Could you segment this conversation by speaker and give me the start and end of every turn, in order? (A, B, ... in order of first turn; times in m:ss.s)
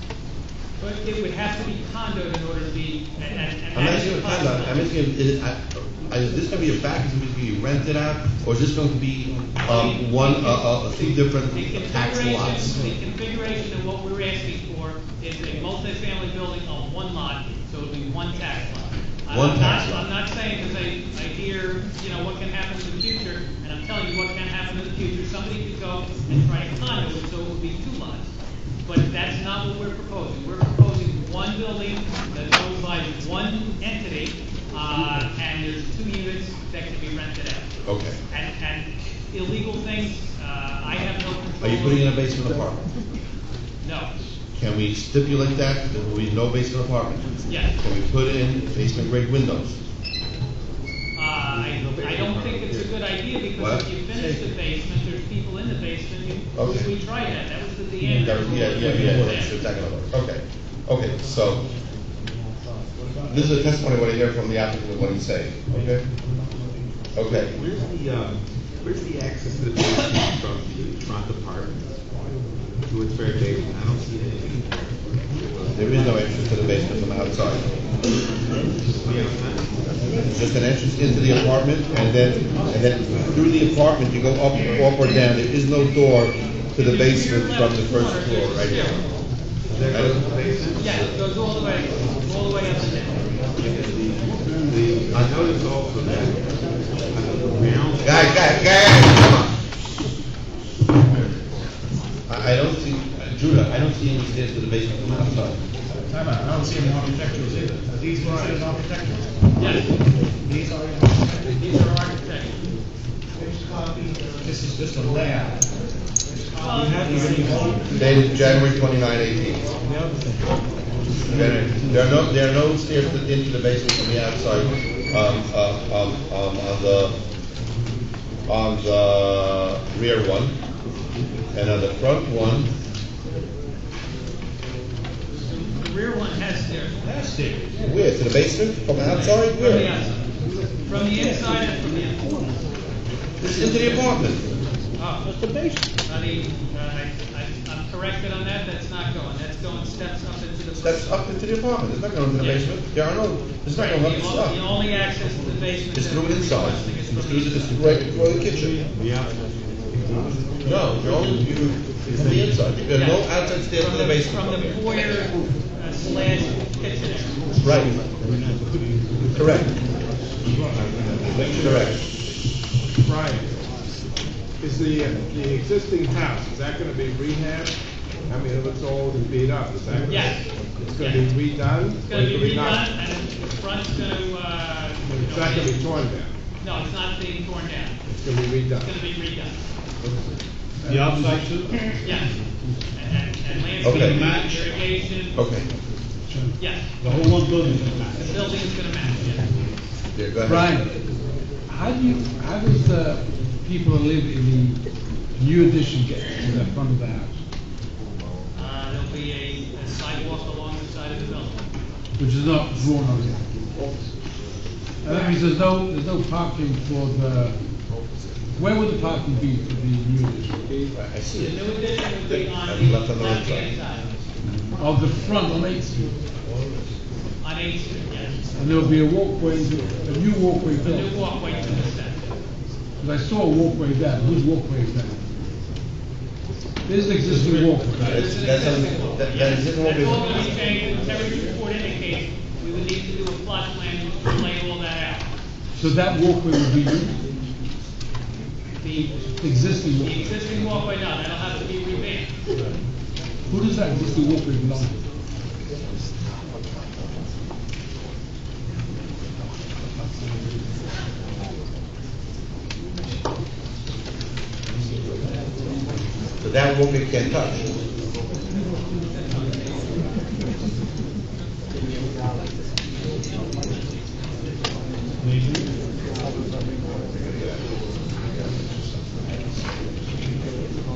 0:00.8-0:04.9 A
0:03.7-0:12.8 B
0:09.6-0:28.3 A
0:19.3-0:20.1 B
0:28.8-0:37.7 A
0:37.8-0:38.2 B
0:38.3-0:42.2 A
0:41.6-0:42.8 B
0:43.8-0:44.1 A
0:44.6-0:49.8 B
0:47.5-0:47.7 A
0:51.1-0:59.6 A
0:51.5-0:52.9 C
0:53.6-0:53.9 B
0:56.6-0:56.9 B
0:58.0-1:01.6 B
1:03.3-1:06.0 B
1:07.2-1:07.5 B
1:07.3-1:11.8 C
1:12.9-1:16.3 C
1:15.7-1:17.6 B
1:19.0-1:19.7 C
1:20.3-1:29.0 B
1:26.8-1:29.0 A
1:29.7-1:31.0 C
1:29.9-1:30.2 B
1:30.8-1:33.2 A
1:33.6-1:36.4 C
1:35.1-1:35.4 B
1:37.1-1:38.5 C
1:38.0-1:39.6 B
1:42.3-1:45.6 B
1:46.1-1:49.4 D
1:48.2-1:48.6 E
1:49.6-1:49.9 A
1:50.4-1:51.5 D
1:51.4-1:52.6 A
1:53.4-1:55.6 D
1:56.3-1:58.8 D
1:56.5-1:58.3 A
1:57.9-1:59.7 B
1:59.9-2:00.3 D
2:01.2-2:02.0 D
2:01.2-2:07.2 B
2:08.5-2:10.5 B
2:11.5-2:12.7 B
2:15.4-2:17.1 A
2:17.0-2:17.9 D
2:17.8-2:20.0 B
2:19.1-2:20.2 A
2:20.8-2:22.3 A
2:20.9-2:22.6 D
2:23.4-2:24.5 B
2:25.0-2:25.3 A
2:25.2-2:25.8 D
2:26.1-2:31.1 A
2:30.8-2:34.6 B
2:32.4-2:32.7 A
2:33.7-2:37.8 A
2:35.9-2:38.8 B
2:38.4-2:41.5 C
2:40.6-2:45.2 B
2:42.1-2:42.6 C
2:42.9-2:47.4 A
2:47.6-2:48.0 B
2:49.3-2:49.7 B
2:51.2-2:51.6 D
2:51.3-2:51.8 C
2:51.4-2:52.0 B
2:53.0-2:53.5 E
2:54.6-2:57.8 E
2:58.3-3:02.8 E
3:00.0-3:01.3 A
3:02.0-3:05.8 A
3:05.1-3:06.3 E
3:06.6-3:08.0 A
3:08.1-3:08.9 E
3:08.7-3:09.6 A
3:10.8-3:11.5 F
3:10.8-3:12.0 D
3:12.0-3:12.3 A
3:12.9-3:15.4 A
3:13.8-3:14.2 B
3:13.8-3:14.7 D
3:15.3-3:15.7 B
3:16.3-3:16.5 F
3:16.6-3:17.0 A
3:17.0-3:18.4 D
3:18.2-3:19.5 A
3:20.1-3:20.7 B
3:20.4-3:21.0 F
3:21.7-3:24.8 F
3:25.4-3:27.4 F
3:28.5-3:31.6 A
3:32.2-3:34.1 F
3:35.0-3:37.6 F
3:35.1-3:35.3 A
3:38.6-3:40.9 F
3:40.9-3:41.7 B
3:41.4-3:44.1 A
3:42.2-3:43.7 B
3:44.4-3:46.1 F
3:47.4-3:48.4 A
3:48.5-3:51.1 F
3:50.8-3:52.3 A
3:53.0-3:55.2 F
3:56.8-3:58.3 F
3:57.3-4:00.4 B
3:58.0-4:05.3 A
4:05.8-4:07.2 F
4:08.8-4:09.3 A
4:09.4-4:10.3 F
4:10.0-4:12.3 A
4:13.5-4:15.0 F
4:26.4-4:27.7 B
4:29.0-4:29.8 A
4:35.3-4:35.6 D